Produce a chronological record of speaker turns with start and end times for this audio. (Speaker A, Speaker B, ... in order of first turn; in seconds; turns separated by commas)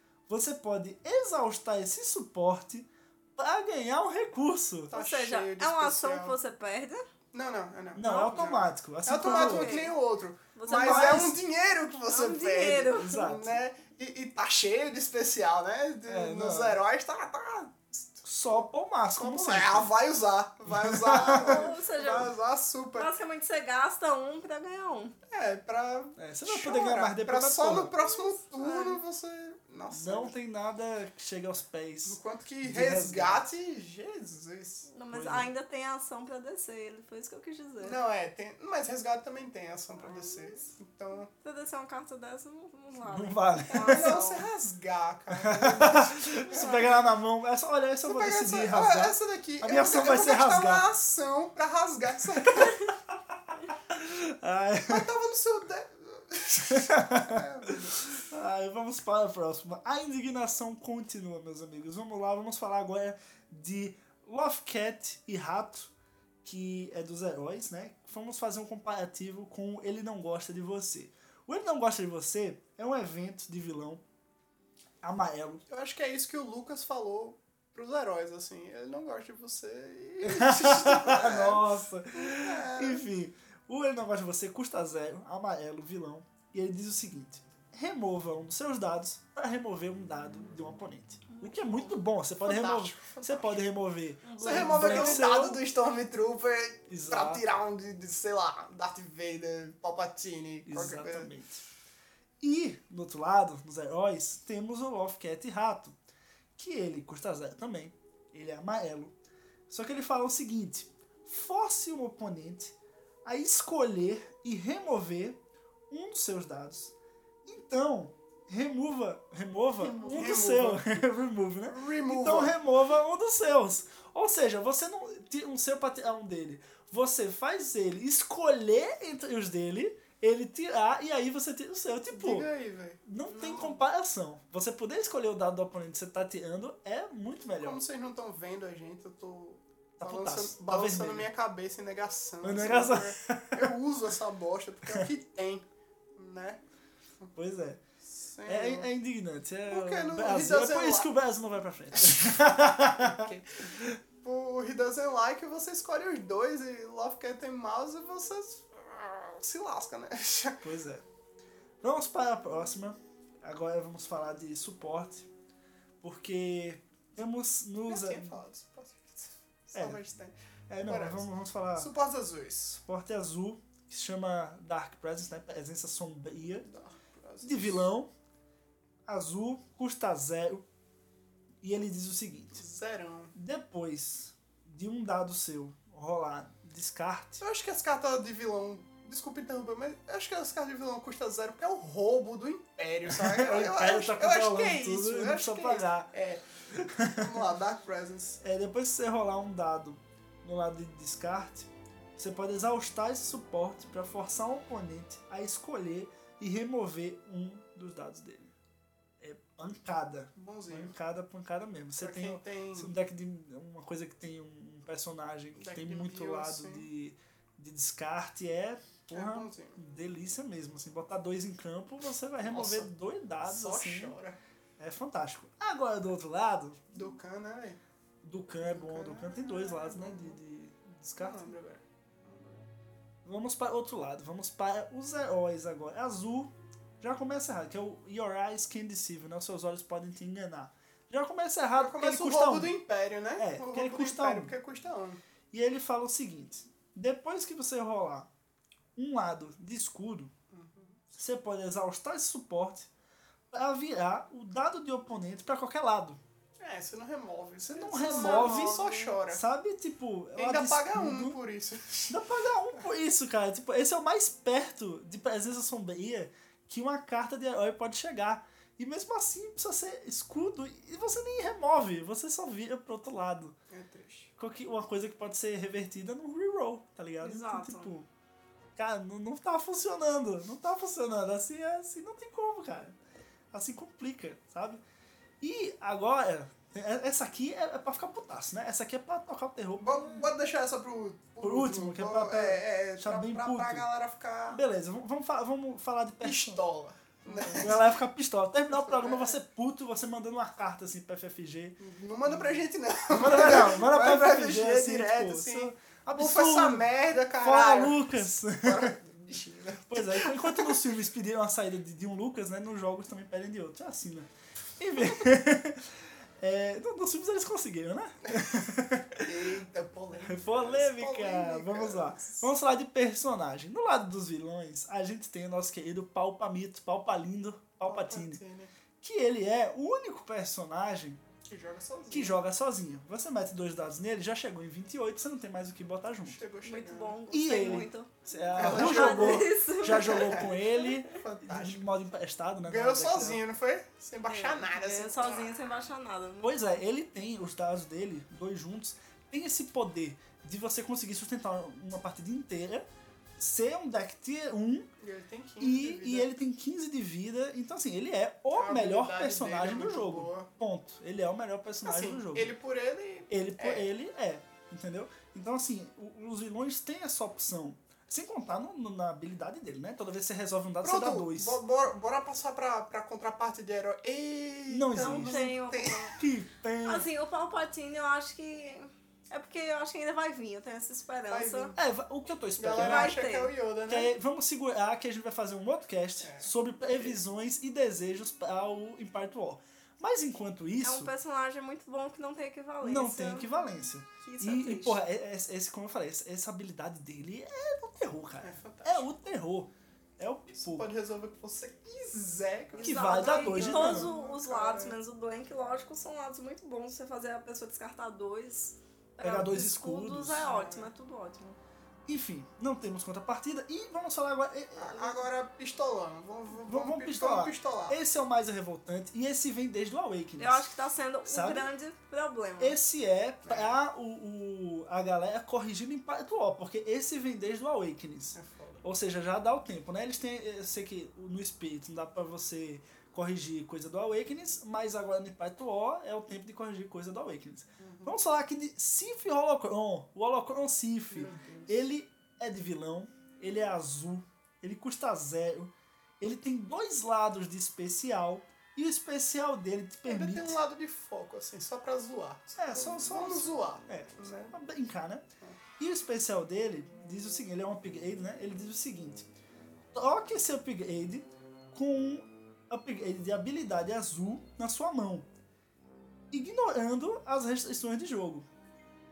Speaker A: 0.3-4.9, Speaker B: 4.9-6.4, Speaker C: 4.9-7.0, Speaker B: 7.3-18.2, Speaker A: 7.9-9.9, Speaker C: 9.1-9.9, Speaker C: 10.5-11.3, Speaker A: 10.7-11.4, Speaker C: 12.1-13.3, Speaker A: 12.9-13.6, Speaker A: 16.1-16.8, Speaker A: 18.2-19.9, Speaker B: 19.1-23.1, Speaker A: 20.6-21.7, Speaker C: 21.1-22.3, Speaker C: 22.9-25.1, Speaker B: 25.3-30.3, Speaker A: 26.2-27.9, Speaker C: 28.1-29.0, Speaker A: 29.9-33.4, Speaker B: 32.0-34.9, Speaker C: 34.9-38.0, Speaker A: 35.1-35.5, Speaker B: 37.8-41.3, Speaker C: 40.0-40.7, Speaker C: 41.4-44.4, Speaker A: 43.1-44.2, Speaker B: 43.7-47.0, Speaker A: 45.3-50.8, Speaker C: 46.5-46.8, Speaker B: 48.0-52.9, Speaker A: 52.4-55.1, Speaker B: 54.9-58.1, Speaker A: 56.7-65.9, Speaker A: 66.4-74.0, Speaker A: 75.0-75.6, Speaker B: 75.7-83.0, Speaker A: 80.2-95.6, Speaker C: 91.3-91.9, Speaker B: 92.4-93.6, Speaker C: 94.2-95.2, Speaker B: 94.4-101.3, Speaker A: 96.9-97.4, Speaker A: 100.7-101.6, Speaker A: 102.4-106.0, Speaker A: 106.6-109.1, Speaker A: 109.7-116.9, Speaker A: 117.5-132.5, Speaker B: 119.9-120.9, Speaker B: 121.7-122.5, Speaker B: 132.1-133.8, Speaker A: 133.1-137.8, Speaker B: 137.6-145.6, Speaker A: 140.0-141.3, Speaker A: 142.4-143.7, Speaker B: 146.2-146.6, Speaker A: 147.3-147.8, Speaker B: 148.1-148.9, Speaker A: 148.4-154.0, Speaker B: 149.7-151.1, Speaker B: 153.0-153.6, Speaker B: 154.2-160.6, Speaker A: 160.6-161.0, Speaker A: 161.8-165.3, Speaker A: 166.0-168.4, Speaker B: 167.9-172.8, Speaker A: 169.7-170.0, Speaker A: 170.7-171.9, Speaker A: 172.8-176.7, Speaker B: 176.6-177.8, Speaker A: 177.4-178.1, Speaker A: 179.1-180.6, Speaker A: 181.6-182.6, Speaker B: 182.6-183.3, Speaker A: 183.3-187.4, Speaker B: 187.4-196.4, Speaker A: 193.1-196.1, Speaker A: 196.7-197.4, Speaker B: 197.0-198.4, Speaker A: 198.4-208.5, Speaker A: 209.2-224.2, Speaker B: 210.3-210.9, Speaker B: 212.0-212.9, Speaker B: 215.6-216.9, Speaker B: 219.1-219.8, Speaker B: 222.4-222.9, Speaker B: 223.4-224.4, Speaker A: 224.8-227.1, Speaker B: 226.9-227.8, Speaker A: 228.2-231.5, Speaker B: 228.6-230.4, Speaker B: 231.2-232.7, Speaker A: 233.2-242.7, Speaker B: 241.8-245.2, Speaker A: 243.4-244.5, Speaker A: 245.5-248.3, Speaker A: 248.9-250.3, Speaker B: 250.5-251.0, Speaker A: 251.2-252.9, Speaker A: 253.5-256.2, Speaker B: 256.6-259.4, Speaker A: 257.6-261.4, Speaker C: 258.0-259.1, Speaker B: 260.3-262.2, Speaker A: 262.1-273.5, Speaker B: 273.7-274.3, Speaker A: 274.4-278.1, Speaker C: 277.2-277.9, Speaker A: 278.8-282.9, Speaker A: 283.5-284.8, Speaker A: 285.4-290.3, Speaker B: 289.8-294.6, Speaker A: 291.4-293.9, Speaker A: 294.5-296.6, Speaker B: 296.2-297.9, Speaker A: 297.3-301.8, Speaker B: 298.8-299.4, Speaker B: 301.8-310.8, Speaker A: 303.1-308.9, Speaker A: 309.9-319.4, Speaker B: 319.2-322.5, Speaker A: 320.2-328.4, Speaker B: 327.8-328.7, Speaker A: 329.0-331.2, Speaker B: 331.4-332.4, Speaker A: 332.1-336.4, Speaker B: 336.2-337.3, Speaker C: 336.6-340.5, Speaker A: 337.3-343.4, Speaker B: 338.5-341.8, Speaker B: 342.6-345.6, Speaker C: 344.3-346.5, Speaker A: 346.4-352.9, Speaker A: 353.4-354.9, Speaker B: 355.0-356.3, Speaker A: 355.6-362.5, Speaker B: 358.5-360.5, Speaker B: 361.8-363.9, Speaker A: 363.3-371.6, Speaker B: 370.8-376.2, Speaker A: 374.7-375.5, Speaker C: 375.0-376.1, Speaker A: 376.2-377.1, Speaker C: 376.9-381.7, Speaker B: 381.3-381.8, Speaker A: 381.8-383.1, Speaker B: 382.6-384.1, Speaker C: 382.7-383.5, Speaker A: 383.9-391.1, Speaker B: 386.2-387.2, Speaker C: 390.8-393.6, Speaker A: 392.8-400.9, Speaker C: 394.2-395.0, Speaker B: 398.4-399.1, Speaker B: 400.5-404.9, Speaker C: 402.8-411.6, Speaker A: 402.8-404.1, Speaker A: 409.2-410.4, Speaker B: 410.4-410.9, Speaker A: 412.1-415.2, Speaker B: 414.8-418.0, Speaker A: 416.6-420.7, Speaker C: 420.4-422.8, Speaker A: 421.2-421.7, Speaker A: 422.6-450.6, Speaker B: 423.4-423.8, Speaker B: 428.3-428.8, Speaker B: 437.8-438.1, Speaker B: 441.1-441.7, Speaker B: 450.1-454.5, Speaker A: 452.6-455.2, Speaker A: 455.8-459.2, Speaker A: 459.9-465.3, Speaker A: 466.3-468.4